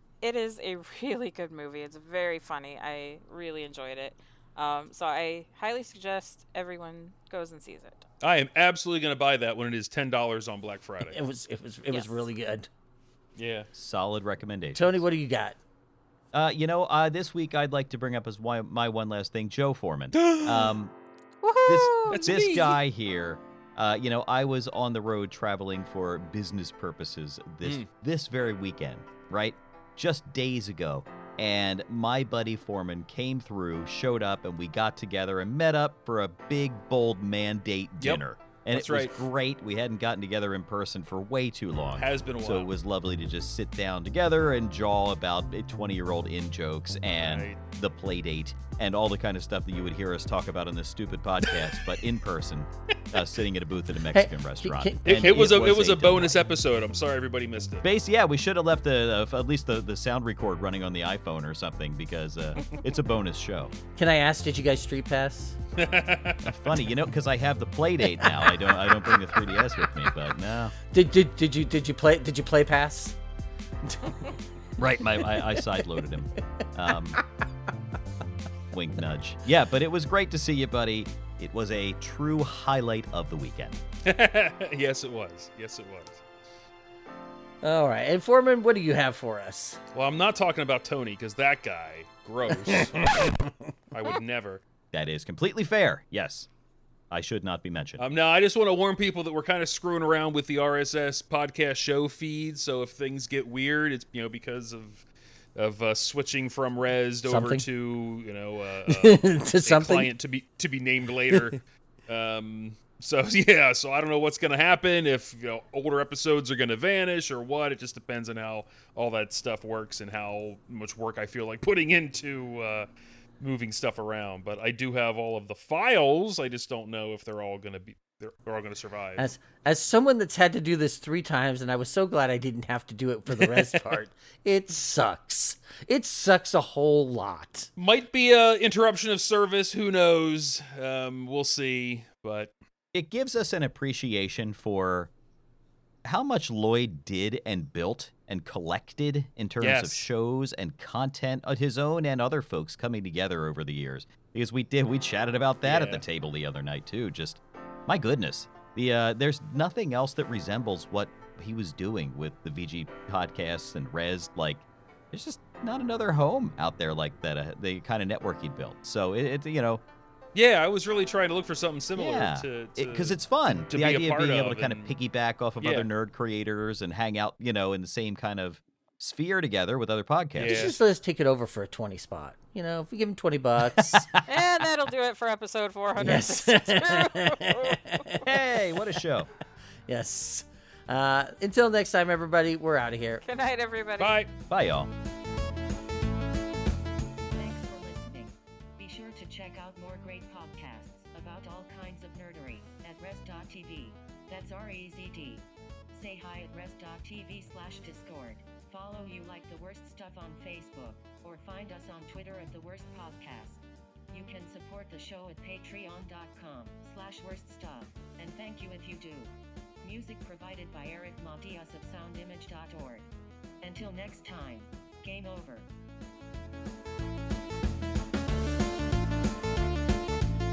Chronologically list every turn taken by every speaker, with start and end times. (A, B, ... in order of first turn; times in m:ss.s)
0:00.2-0:08.0 A
0:08.2-0:11.2 B
0:11.0-0:12.7 C
0:11.9-0:12.2 A
0:13.4-0:13.7 B
0:13.7-0:15.0 D
0:14.7-0:15.6 C
0:16.3-0:20.9 D
0:20.1-0:20.7 B
0:21.4-0:22.3 A
0:21.6-0:56.4 D
0:22.1-0:22.8 B
0:38.0-0:39.2 B
0:41.9-0:42.7 B
0:47.2-0:47.6 B
0:54.1-0:55.3 C
0:55.0-0:57.8 B
0:57.8-1:03.7 D
1:03.9-1:05.6 C
1:05.8-1:06.6 B
1:06.4-1:10.7 D
1:08.2-1:09.4 C
1:10.9-1:13.2 C
1:13.8-1:14.4 C
1:14.8-1:17.2 D
1:15.2-1:15.7 C
1:18.7-1:23.8 D
1:24.0-1:26.2 B
1:27.6-1:29.8 C
1:29.9-1:33.2 B
1:32.6-1:33.5 C
1:33.9-1:34.6 B
1:34.9-1:36.5 D
1:37.1-1:38.0 D
1:38.0-1:45.0 B
1:45.6-2:02.9 B
1:47.3-1:47.6 C
1:48.9-1:50.1 C
2:03.4-2:09.3 B
2:09.2-2:17.7 C
2:13.4-2:13.8 B
2:17.8-2:22.5 B
2:22.9-2:25.1 D
2:26.0-2:49.8 D
2:29.6-2:30.0 B
2:35.6-2:36.0 B
2:50.3-2:54.9 B
2:52.0-3:00.7 D
2:55.6-2:55.9 B
3:00.3-3:00.8 B
3:00.4-3:04.1 C
3:03.8-3:04.2 D
3:04.2-3:07.8 A
3:06.0-3:08.2 C
3:08.2-3:09.3 D
3:09.9-3:13.2 C
3:13.2-3:14.2 A
3:14.0-3:14.3 B
3:14.5-3:14.9 D
3:17.4-3:39.3 E
3:39.8-3:43.1 E
3:43.6-3:45.7 E